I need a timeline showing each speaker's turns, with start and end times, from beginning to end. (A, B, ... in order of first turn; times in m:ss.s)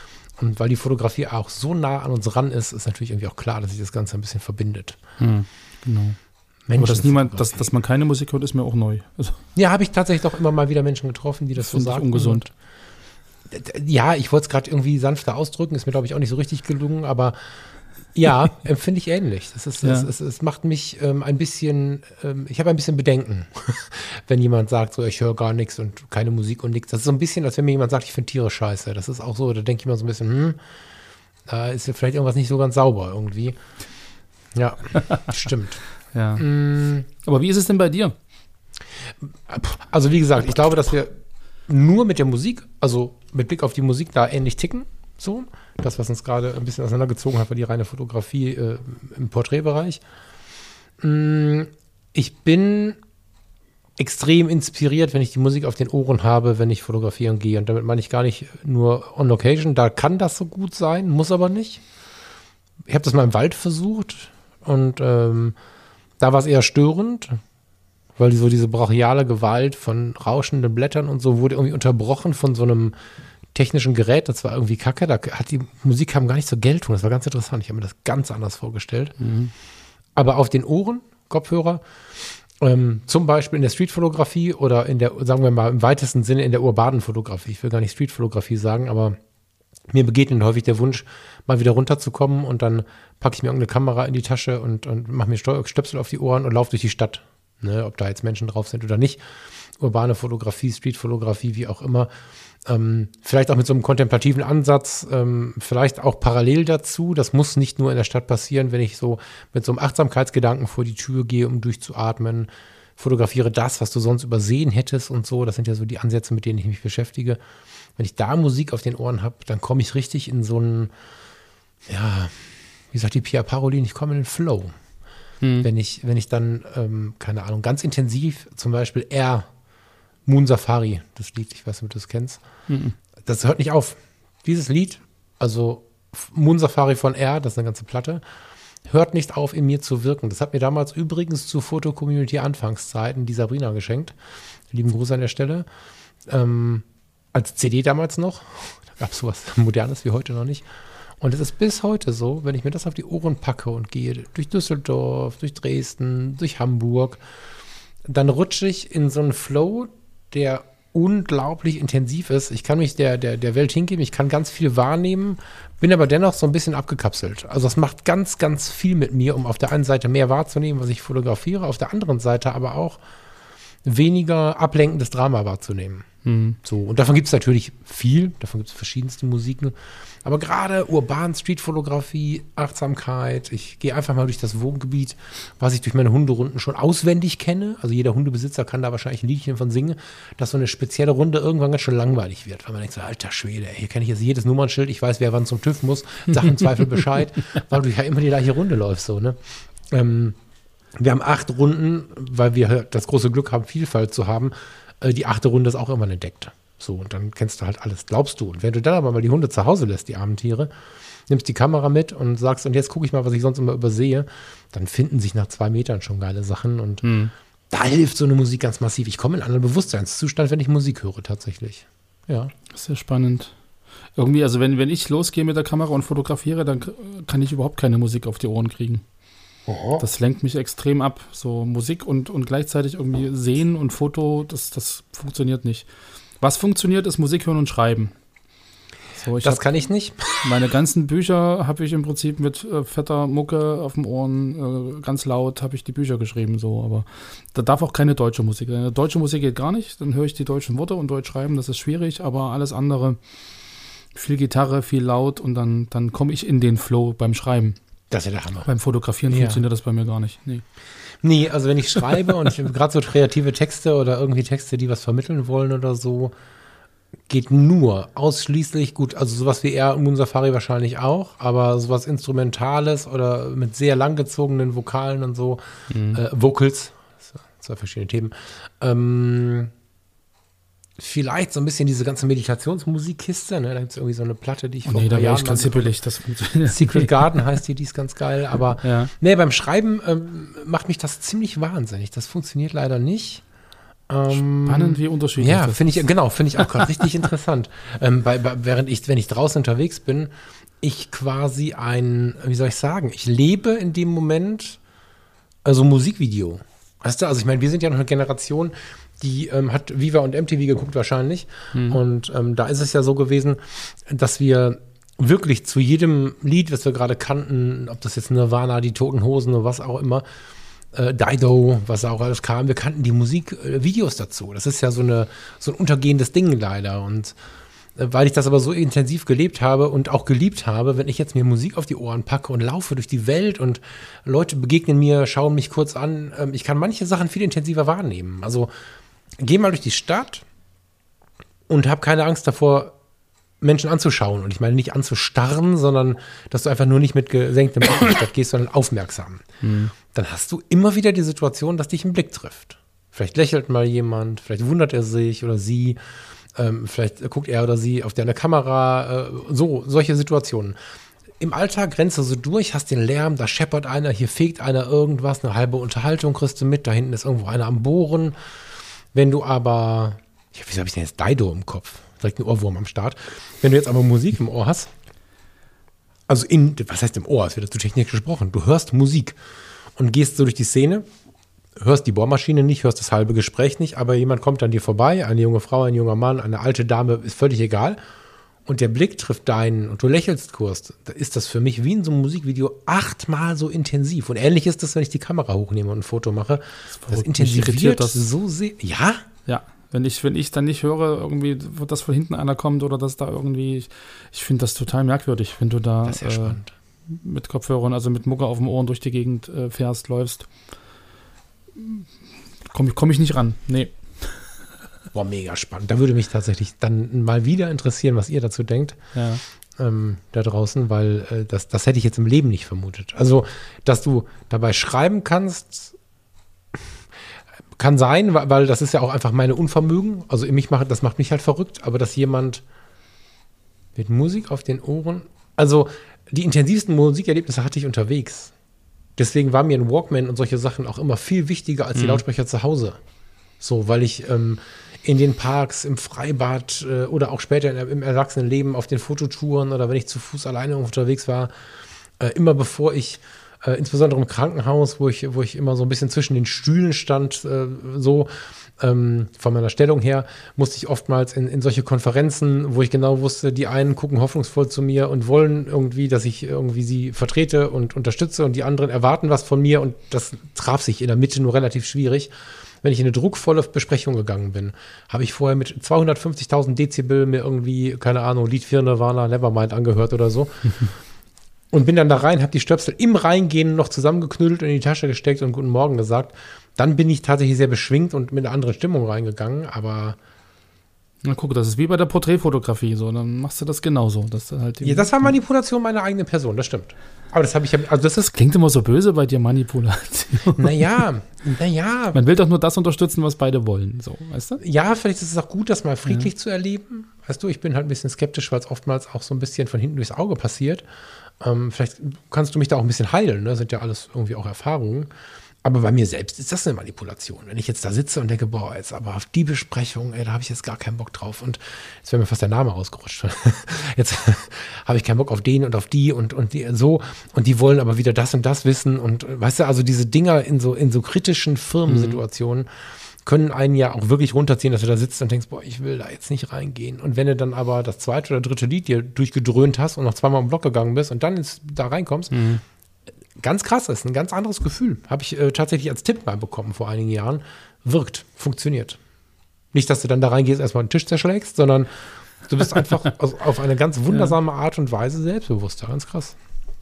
0:00.4-0:05.0 A
0:05.2-0:06.2 B
0:06.7-0:07.6 A
0:06.7-0:09.4 B
0:09.6-0:12.5 A
0:11.6-0:12.4 B
0:13.5-0:17.4 A
0:18.1-0:30.6 A
0:19.8-0:20.1 B
0:31.5-0:33.6 A
0:34.5-0:35.8 A
0:35.0-0:35.3 B
0:36.1-0:36.5 B
0:36.4-0:37.1 A
0:37.1-0:38.2 B
0:39.4-0:41.1 A
0:41.7-0:50.0 A
0:51.0-0:53.0 A
0:54.0-1:01.8 A
1:02.9-1:05.5 A
1:06.2-1:07.4 A
1:08.2-1:12.9 A
1:13.5-1:19.1 A
1:19.2-1:19.5 B
1:20.1-1:21.8 A
1:22.6-1:29.2 A
1:29.9-1:39.2 A
1:39.8-1:42.1 A
1:42.6-1:57.4 A
1:58.0-2:00.9 A
2:01.9-2:04.7 A
2:05.4-2:05.7 B
2:05.6-2:09.5 A
2:10.2-2:12.4 A
2:12.7-2:12.9 B
2:13.2-2:18.2 A
2:18.9-2:24.2 A
2:24.7-2:25.6 A
2:26.3-2:30.6 A
2:31.2-2:37.2 A
2:38.0-2:53.0 A
2:53.8-2:56.1 A
2:56.2-2:56.6 B
2:56.6-3:20.4 A
3:21.0-3:30.7 A
3:31.3-3:37.1 A
3:37.0-3:37.3 B
3:37.7-3:42.5 A
3:42.7-3:43.5 B
3:44.2-3:49.0 B
3:49.7-3:50.0 A
3:50.0-3:55.9 B
3:56.4-3:58.1 B
3:59.2-3:59.6 B
3:59.4-4:00.2 A
4:00.4-4:13.2 B
4:14.1-4:17.8 B
4:18.1-4:18.7 A
4:18.6-4:20.6 B
4:19.3-4:19.6 A
4:21.2-4:26.3 A
4:27.3-4:35.6 A
4:35.9-4:36.2 B
4:36.1-4:39.7 A
4:41.0-4:45.9 A
4:44.8-4:47.1 B
4:46.7-4:53.4 A
4:48.8-4:49.1 B
4:54.1-5:04.8 A
4:54.3-4:56.0 B
4:56.6-4:56.9 B
5:05.6-5:20.2 A
5:11.7-5:12.0 B
5:20.9-5:27.4 A
5:28.0-5:38.7 A
5:39.4-5:40.4 A
5:41.7-5:42.9 A
5:43.6-5:56.0 A
5:49.6-5:49.9 B
5:56.5-6:00.8 A
6:01.4-6:08.3 A
6:09.1-6:14.9 A
6:16.3-6:19.4 A
6:20.0-6:21.0 A
6:21.8-6:28.0 A
6:28.6-6:39.2 A
6:37.0-6:38.2 B
6:39.4-6:50.5 B
6:46.0-6:46.7 A
6:51.8-6:52.0 B
6:52.7-6:54.5 B
6:55.1-6:59.0 A
6:59.1-6:59.4 B
6:59.8-7:06.0 A
7:07.8-7:12.6 A
7:13.9-7:18.5 A
7:19.2-7:23.0 A
7:21.9-7:22.2 B
7:23.6-7:31.5 A
7:32.2-8:00.8 A
8:01.7-8:10.2 A
8:11.2-8:15.3 B
8:14.8-8:18.3 A
8:18.3-8:20.8 B
8:20.6-8:22.2 A
8:22.1-8:24.6 B
8:24.6-8:30.8 A
8:31.4-8:35.1 A
8:35.6-8:52.7 A
8:51.8-8:52.2 B
8:53.2-9:02.4 A
9:02.3-9:02.6 B
9:03.4-9:09.0 A
9:09.7-9:16.3 A